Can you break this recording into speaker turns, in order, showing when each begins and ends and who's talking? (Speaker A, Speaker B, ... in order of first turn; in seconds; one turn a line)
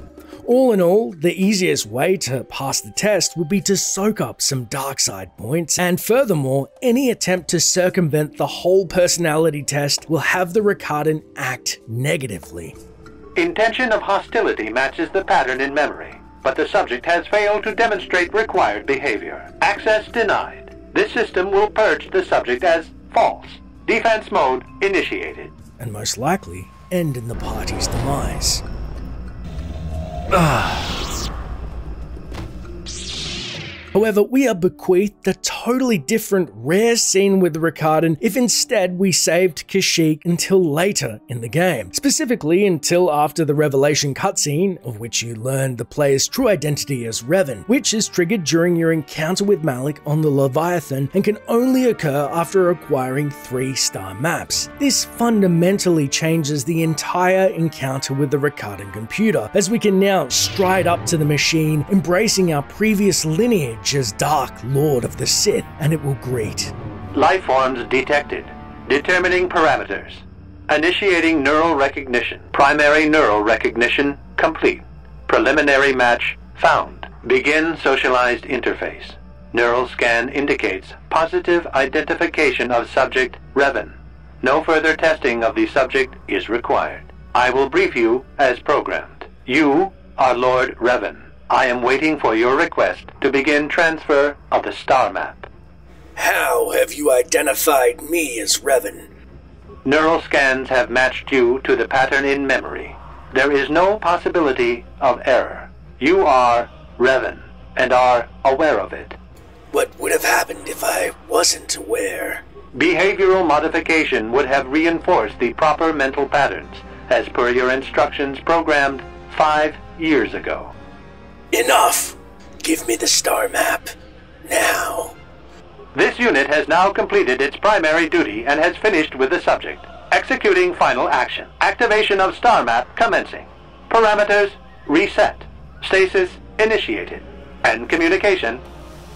Speaker A: 0.4-12.7
Speaker B: 13.3-25.5
Speaker A: 25.8-28.6
Speaker A: 30.3-31.0
Speaker A: 33.9-66.7
Speaker B: 67.1-95.5
Speaker A: 96.2-99.1
Speaker B: 99.8-109.2
Speaker A: 109.7-112.4
Speaker B: 112.7-120.7
Speaker A: 121.5-123.9
Speaker A: 124.4-125.2
Speaker B: 125.9-138.6